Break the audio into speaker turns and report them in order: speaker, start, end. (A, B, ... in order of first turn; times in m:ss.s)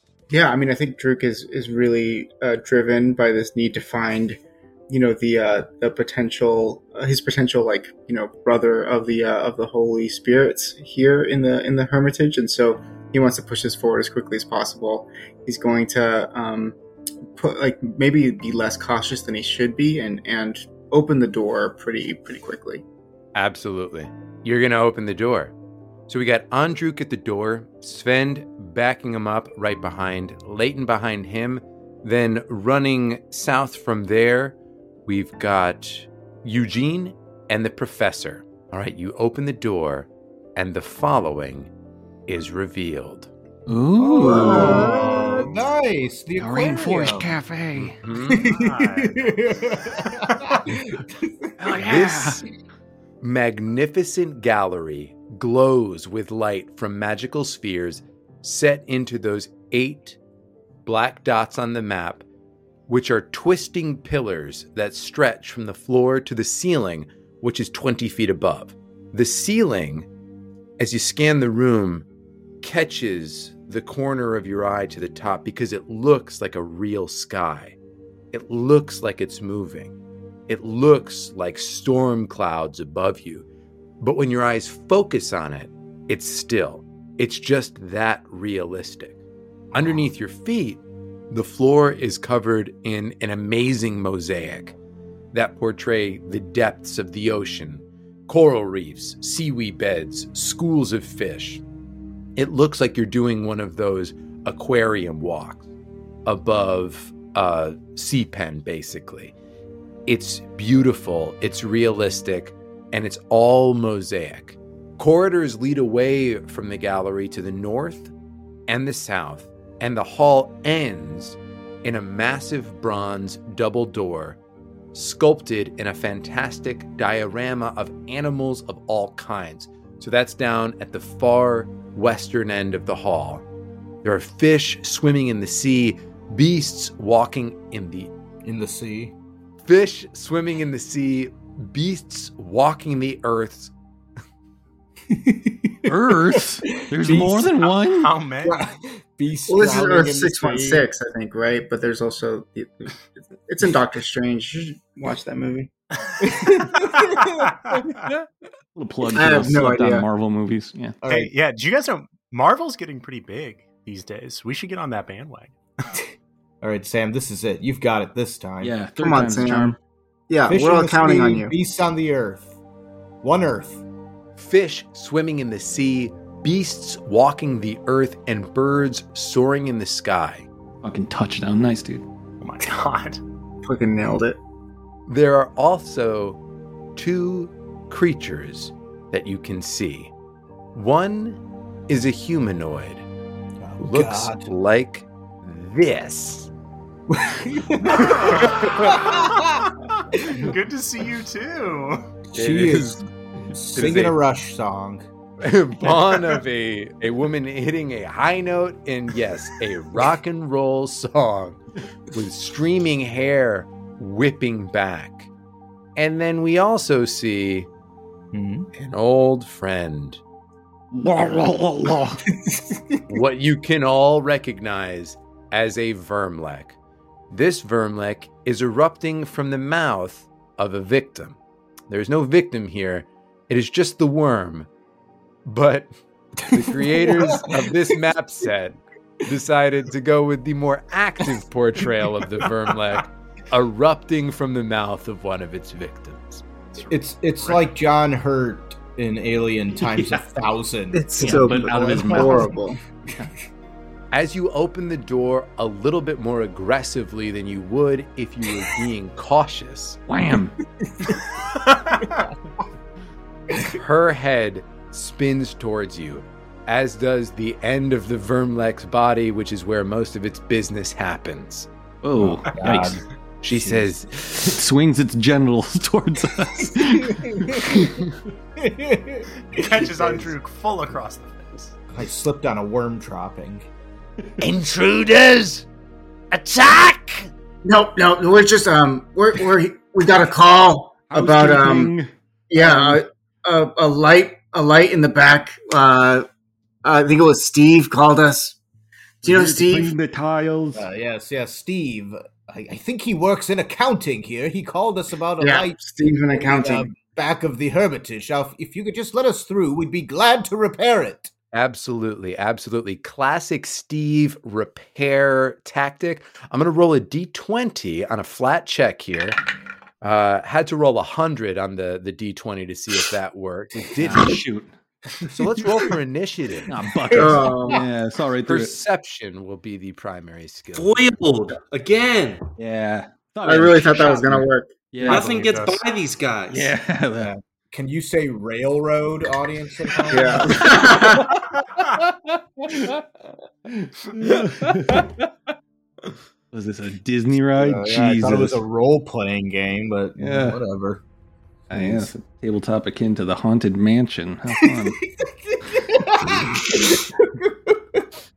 0:00.3-0:16.8 A
0:17.4-0:22.8 A
0:23.4-0:25.5 B
0:26.1-0:41.7 B
0:42.3-0:43.3 B
0:43.7-0:45.2 C
0:44.0-0:47.3 D
0:44.5-0:45.4 E
0:46.4-0:48.1 C
0:47.8-0:48.5 B
0:48.3-0:51.5 D
0:48.4-0:50.5 E
0:51.6-0:52.4 C
0:51.7-0:52.4 B
0:53.2-1:00.2 B
1:00.8-1:02.2 B
1:02.9-1:10.1 B
1:10.8-1:12.1 B
1:12.6-1:17.8 B
1:18.3-1:19.9 B
1:20.5-1:23.5 B
1:24.0-1:29.2 B
1:29.7-1:34.8 B
1:29.8-1:30.0 D
1:35.3-1:41.6 B
1:42.4-1:45.6 B
1:46.2-1:49.3 B
1:50.1-1:58.1 B
1:58.7-2:04.4 B
2:04.9-2:13.4 B
2:14.0-2:18.1 B
2:18.4-2:19.1 D
2:19.6-2:23.7 B
2:25.1-2:27.5 D
2:25.9-2:28.1 C
2:27.6-2:28.6 E
2:28.4-2:30.9 D
2:29.5-2:35.7 A
2:36.2-2:37.8 D
2:36.7-2:38.0 E
2:38.8-2:41.0 C
2:39.2-2:40.1 A
2:41.0-2:41.3 D
2:41.1-2:46.0 E
2:46.6-2:48.7 D
2:48.6-2:49.8 C
2:49.0-2:49.8 A
2:50.3-2:51.5 A
2:50.5-2:52.6 D
2:53.2-2:53.8 D
2:54.4-3:00.5 B
3:00.8-3:02.0 C
3:02.4-3:03.2 E
3:03.6-3:04.4 A
3:05.1-3:06.4 B
3:07.0-3:10.1 B
3:10.7-3:13.0 B
3:13.6-3:14.5 D
3:13.8-3:16.5 B
3:17.1-3:20.5 D
3:18.0-3:19.0 B
3:18.3-3:19.4 E
3:20.0-3:22.1 E
3:22.3-3:25.0 D
3:22.4-3:23.0 B
3:23.8-3:24.2 B
3:25.4-3:31.6 B
3:32.1-3:35.3 B
3:36.0-3:37.7 B
3:38.3-3:38.7 D
3:38.7-3:40.2 B
3:40.9-3:42.2 C
3:42.4-3:42.8 D
3:43.1-3:46.8 B
3:47.3-3:54.7 B
3:55.4-3:55.9 B
3:56.4-4:06.4 B
3:57.1-3:57.5 D
4:06.7-4:07.6 E
4:06.9-4:12.5 D
4:09.8-4:10.2 C
4:10.9-4:12.8 A
4:11.2-4:12.6 C
4:14.1-4:20.0 B
4:20.1-4:20.6 C
4:20.8-4:21.2 D
4:21.3-4:22.3 E
4:23.6-4:31.7 B
4:32.0-4:38.2 C
4:32.2-4:33.0 D
4:33.4-4:34.6 B
4:37.1-4:38.0 D
4:38.6-4:39.7 D
4:39.4-4:41.8 E
4:41.9-4:43.7 D
4:44.4-4:45.7 B
4:46.3-4:47.3 B
4:47.6-4:51.9 A
4:51.1-4:53.0 C
4:52.5-4:56.3 A
4:56.8-4:58.6 A
4:59.2-4:59.9 A
4:59.2-5:00.8 C
5:00.8-5:05.8 D
5:05.4-5:07.0 A
5:06.4-5:11.3 D
5:11.5-5:19.4 B
5:20.0-5:24.4 B
5:24.0-5:25.3 C
5:25.3-5:26.8 B
5:26.7-5:28.7 C
5:27.1-5:27.8 A
5:28.4-5:31.0 B
5:30.7-5:32.5 F
5:32.6-5:35.5 C
5:33.4-5:34.8 A
5:35.0-5:36.7 F
5:35.1-5:35.9 E
5:36.5-5:37.3 C
5:37.2-5:40.8 D
5:39.9-5:43.0 C
5:40.1-5:41.3 A
5:43.7-5:45.5 C
5:46.5-5:48.6 C
5:47.5-5:51.0 D
5:50.2-5:50.6 C
5:51.7-5:52.1 D
5:51.7-5:55.0 C
5:54.7-5:58.1 D